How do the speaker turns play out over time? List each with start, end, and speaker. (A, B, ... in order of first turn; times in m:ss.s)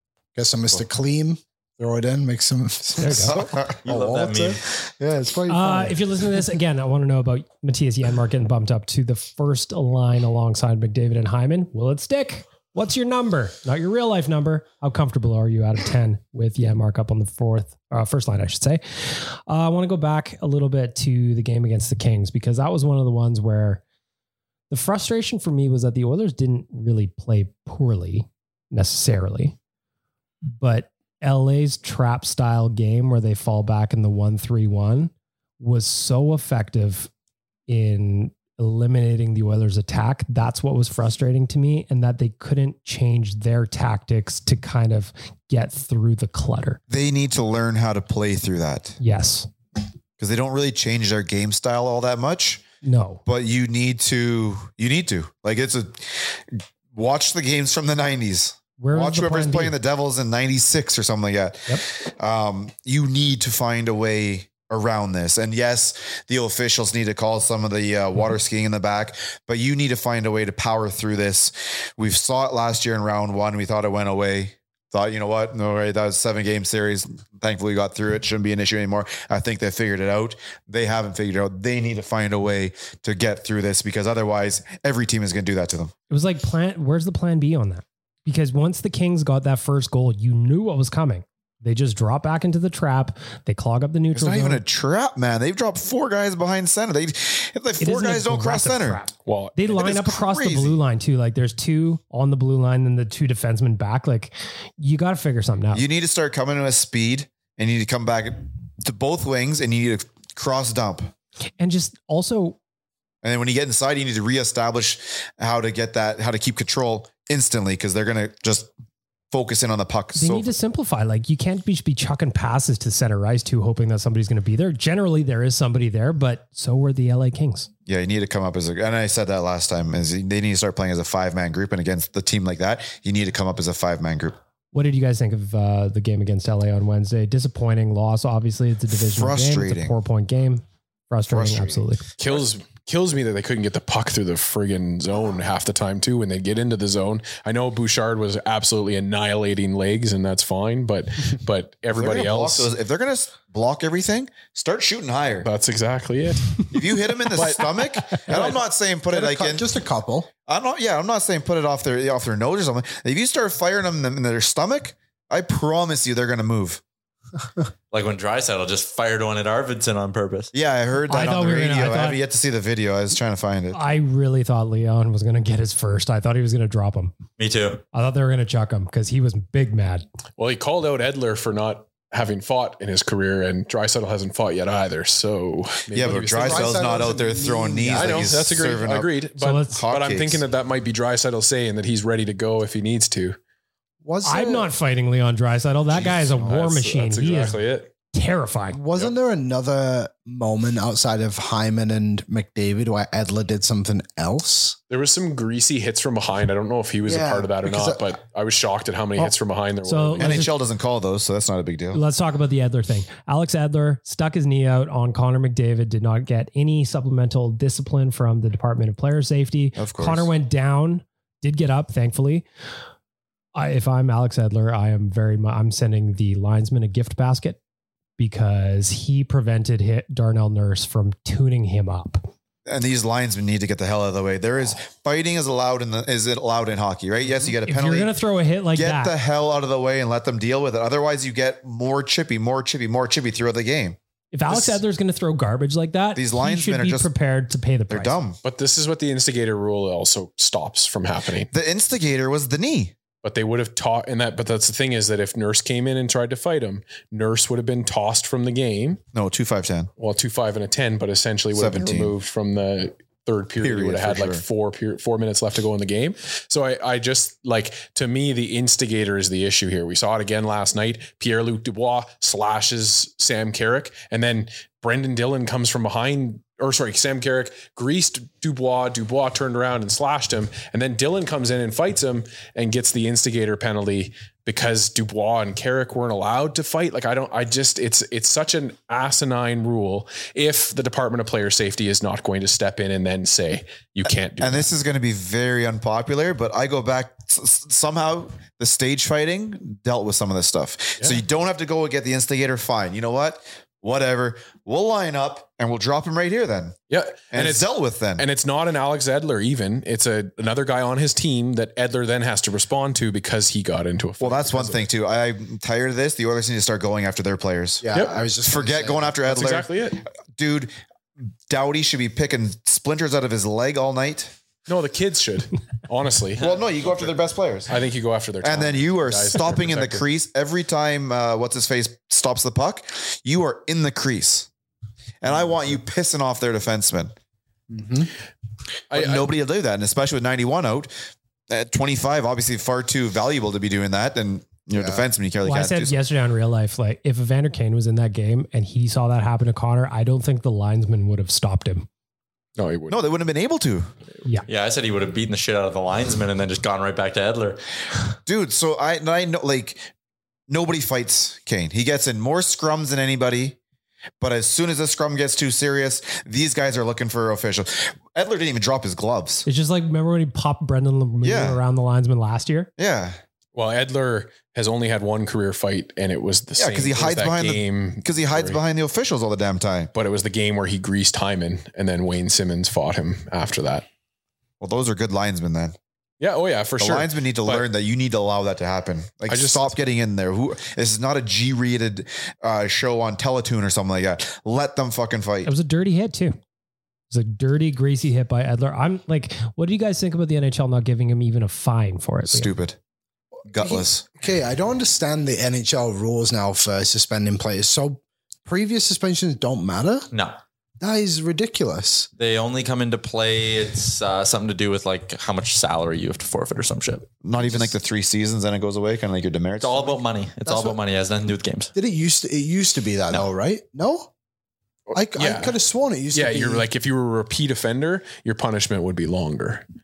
0:00.4-0:06.0 A
0:03.0-0:03.4 B
0:03.0-0:03.8 C
0:03.8-0:04.6 D
0:05.5-0:23.8 B
0:24.7-0:29.6 B
0:30.6-0:37.1 B
0:37.7-0:46.8 B
0:46.9-0:49.0 C
0:49.0-0:49.5 B
0:50.2-0:52.6 C
0:52.8-0:53.2 B
0:53.3-1:25.9 C
0:58.8-0:59.7 B
1:26.1-1:34.6 B
1:34.1-1:39.0 C
1:37.8-1:45.8 B
1:39.3-1:39.6 E
1:39.7-1:40.8 C
1:45.7-1:51.1 C
1:51.6-1:52.6 B
1:53.2-1:58.7 C
1:59.3-2:00.5 C
2:00.2-2:07.7 B
2:07.9-2:14.4 C
2:14.7-2:22.0 B
2:19.1-2:20.0 C
2:21.3-2:22.4 C
2:22.2-2:32.7 E
2:31.9-2:35.5 C
2:35.4-2:36.7 E
2:36.7-2:39.7 C
2:37.3-2:38.6 E
2:39.1-2:40.3 A
2:40.5-2:46.8 C
2:47.9-2:50.5 D
2:50.5-2:53.8 C
2:51.1-2:52.2 B
2:53.7-2:57.2 B
2:57.4-2:57.8 D
2:57.9-3:00.0 B
3:00.4-3:07.2 E
3:05.9-3:10.4 C
3:06.0-3:08.5 A
3:07.9-3:13.4 E
3:09.4-3:09.8 B
3:14.0-3:14.7 A
3:14.2-3:18.8 B
3:16.0-3:17.9 E
3:18.7-3:24.8 A
3:24.9-3:30.5 E
3:27.1-3:28.1 A
3:29.8-3:30.5 B
3:30.2-3:32.0 C
3:31.9-3:42.4 B
3:39.8-3:40.3 C
3:43.6-3:47.6 B
3:48.2-3:52.3 B
3:52.7-3:58.2 C
3:57.7-3:59.2 B
3:58.7-4:04.0 C
4:04.3-4:08.2 B
4:04.5-4:04.8 C
4:06.2-4:07.1 C
4:07.9-4:08.4 C
4:08.4-4:11.5 E
4:11.5-4:12.9 C
4:13.2-4:19.0 E
4:19.1-4:19.9 C
4:20.0-4:54.7 E
4:21.5-4:22.1 C
4:23.6-4:24.4 C
4:54.4-5:06.8 C
5:06.9-5:14.8 E
5:07.3-5:08.3 C
5:14.2-5:17.9 C
5:17.8-5:19.2 A
5:17.9-5:18.2 E
5:18.4-5:20.7 C
5:19.2-5:20.0 E
5:21.5-5:24.3 C
5:24.7-5:26.6 E
5:26.4-5:27.8 C
5:27.7-5:30.0 E
5:28.4-5:34.5 C
5:35.2-5:37.1 C
5:37.7-5:38.1 A
5:38.9-5:39.3 E
5:38.9-5:40.9 C
5:41.5-5:46.0 C
5:44.7-5:45.0 A
5:45.4-5:51.9 B
5:52.6-5:53.0 E
5:52.9-5:53.9 C
5:54.5-5:57.6 D
5:58.3-5:59.9 C
6:00.5-6:03.6 C
6:04.2-6:09.4 C
6:09.5-6:12.7 B
6:11.2-6:11.6 C
6:12.8-6:13.2 C
6:13.6-6:18.6 E
6:16.6-6:19.9 C
6:19.9-6:23.9 E
6:24.6-6:25.8 C
6:26.2-6:27.7 E
6:26.8-6:35.5 C
6:29.3-6:29.8 E
6:35.4-6:36.4 B
6:37.1-6:42.5 B
6:42.3-6:42.8 C
6:43.5-6:44.0 C
6:43.6-6:50.1 A
6:50.1-6:50.4 D
6:50.8-6:52.1 A
6:52.2-6:57.1 D
6:57.2-7:00.0 C
6:59.6-7:01.7 D
7:00.5-7:00.8 A
7:01.8-7:04.1 A
7:04.9-7:05.6 E
7:04.9-7:06.7 A
7:06.1-7:09.6 E